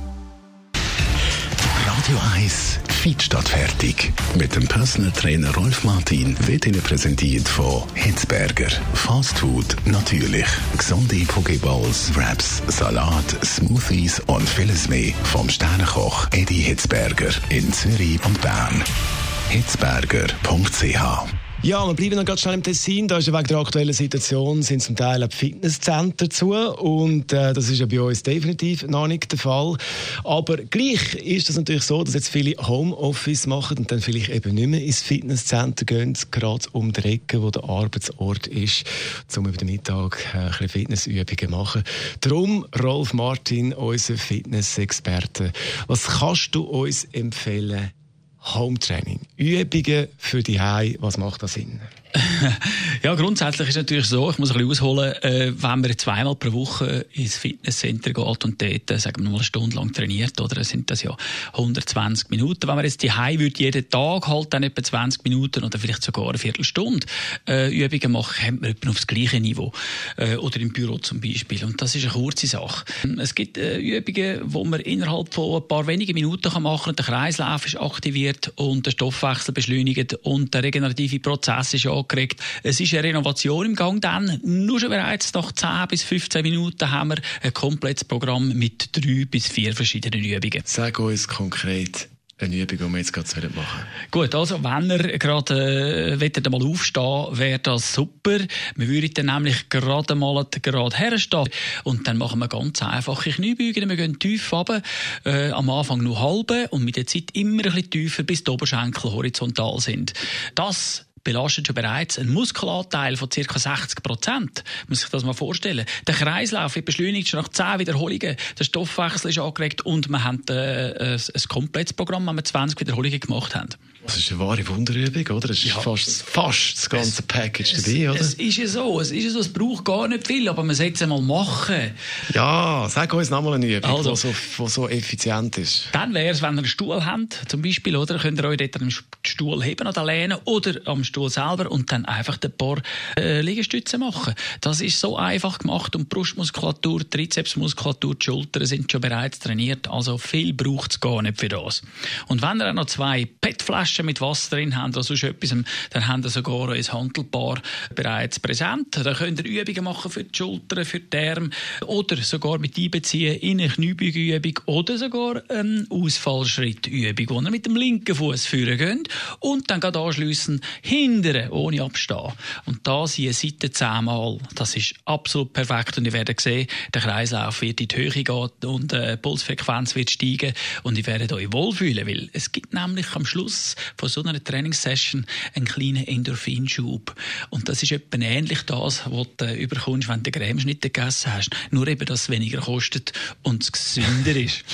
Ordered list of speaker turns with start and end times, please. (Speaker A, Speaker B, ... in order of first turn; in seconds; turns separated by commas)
Speaker A: 1.8-18.9, Speaker A: 19.5-21.3, Speaker B: 21.6-47.9, Speaker B: 48.4-51.8, Speaker C: 52.1-90.7, Speaker B: 90.7-93.9, Speaker C: 94.1-123.8, Speaker B: 124.0-128.4, Speaker C: 125.6-125.9, Speaker C: 126.9-132.0, Speaker B: 132.3-135.9, Speaker C: 133.8-134.2, Speaker C: 135.9-194.7